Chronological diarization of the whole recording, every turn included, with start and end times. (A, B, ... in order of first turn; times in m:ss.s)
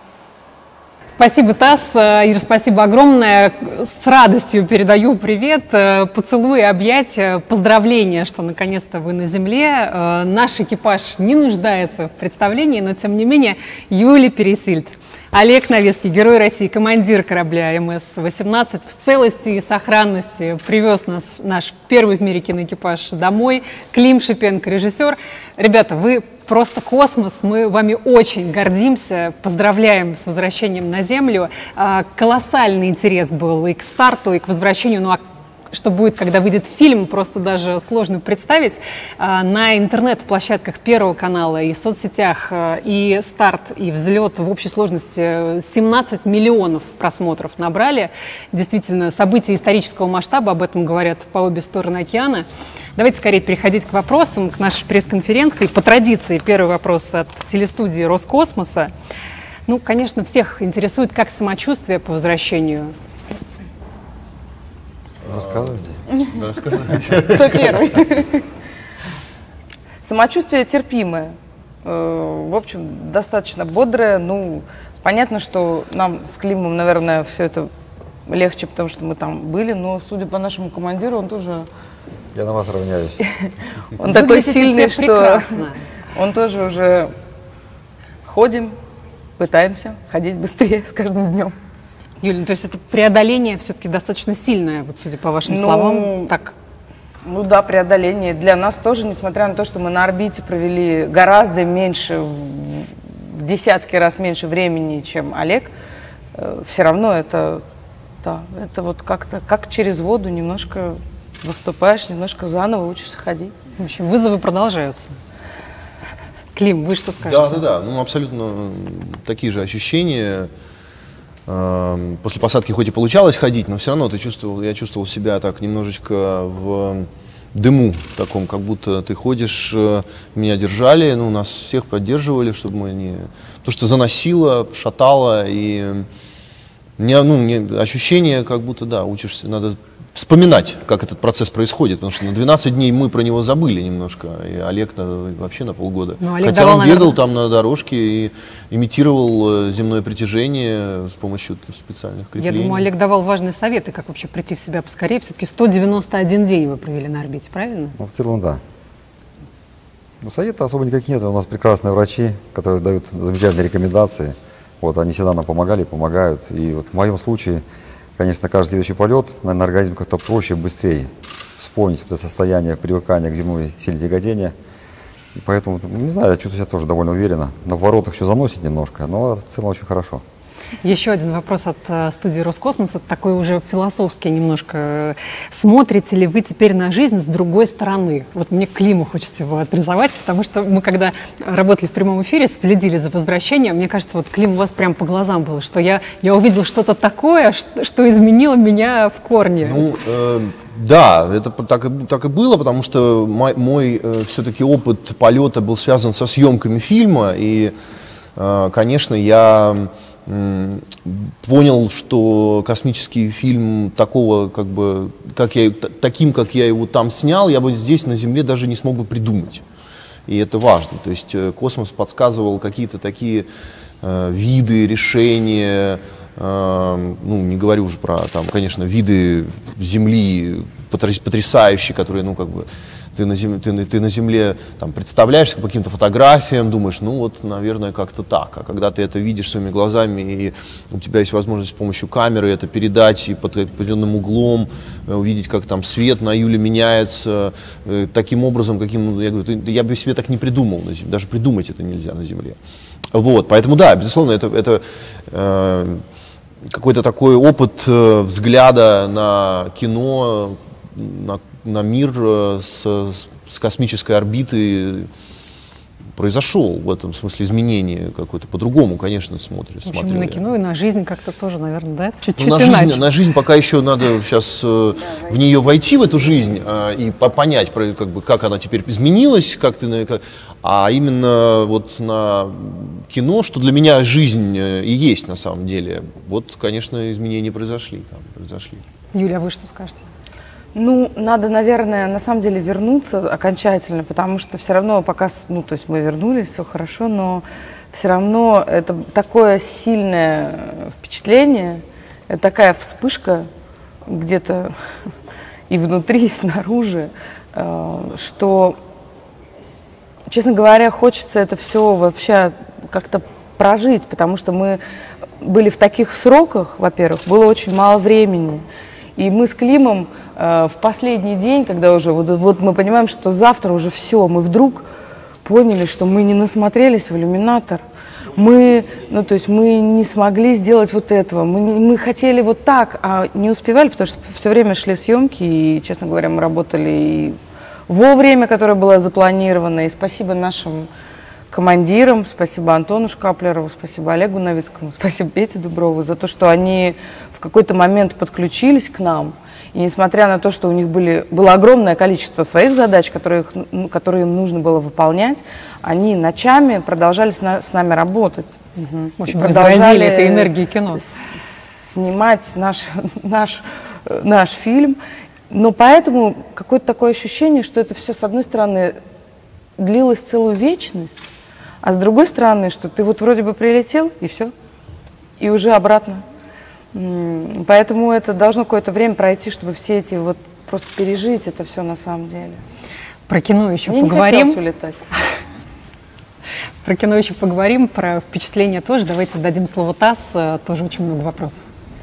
0:01.1-0:35.2 A
0:35.7-0:52.4 A
0:53.0-0:58.9 A
0:59.6-1:02.9 A
1:05.2-1:07.9 B
1:05.3-1:06.0 C
1:07.3-1:08.4 D
1:10.0-1:17.7 D
1:18.3-1:21.7 D
1:22.3-1:23.2 C
1:23.2-1:25.6 D
1:24.0-1:25.8 A
1:26.1-1:27.1 D
1:28.2-1:28.8 D
1:29.4-1:31.5 D
1:32.2-1:36.5 A
1:35.4-1:36.3 D
1:37.2-1:45.7 D
1:46.3-1:47.6 D
1:48.2-1:53.5 D
1:53.8-1:55.2 A
1:56.5-1:57.6 A
1:57.2-2:00.5 B
2:01.5-2:16.1 B
2:17.0-2:32.9 B
2:26.2-2:27.2 A
2:32.4-2:38.0 A
2:38.0-2:38.6 C
2:40.2-2:47.6 C
2:48.2-2:54.5 C
2:55.3-3:00.2 C
3:00.8-3:19.8 A
3:19.6-3:27.7 B
3:28.4-3:39.6 B
3:40.3-3:43.5 B
3:44.0-4:12.6 B
4:13.1-4:16.0 B
4:16.7-4:25.1 B
4:26.1-4:30.4 B
4:29.8-4:33.0 A
4:32.4-4:48.8 B
4:49.1-4:50.0 A
4:50.7-5:03.5 D
5:04.1-5:04.7 D
5:05.7-5:08.8 D
5:10.3-5:14.8 D
5:15.4-5:18.6 D
5:19.2-5:24.8 D
5:25.4-5:27.8 D
5:28.3-5:37.4 D
5:37.9-5:40.9 D
5:41.5-5:58.6 D
5:58.8-6:01.0 A
5:59.3-6:05.0 D
6:05.5-6:09.0 D
6:09.8-6:11.2 D
6:11.8-6:14.5 D
6:15.4-6:16.2 D
6:16.9-6:22.6 D
6:23.3-6:24.6 A
6:23.9-6:25.1 D
6:26.8-6:31.6 A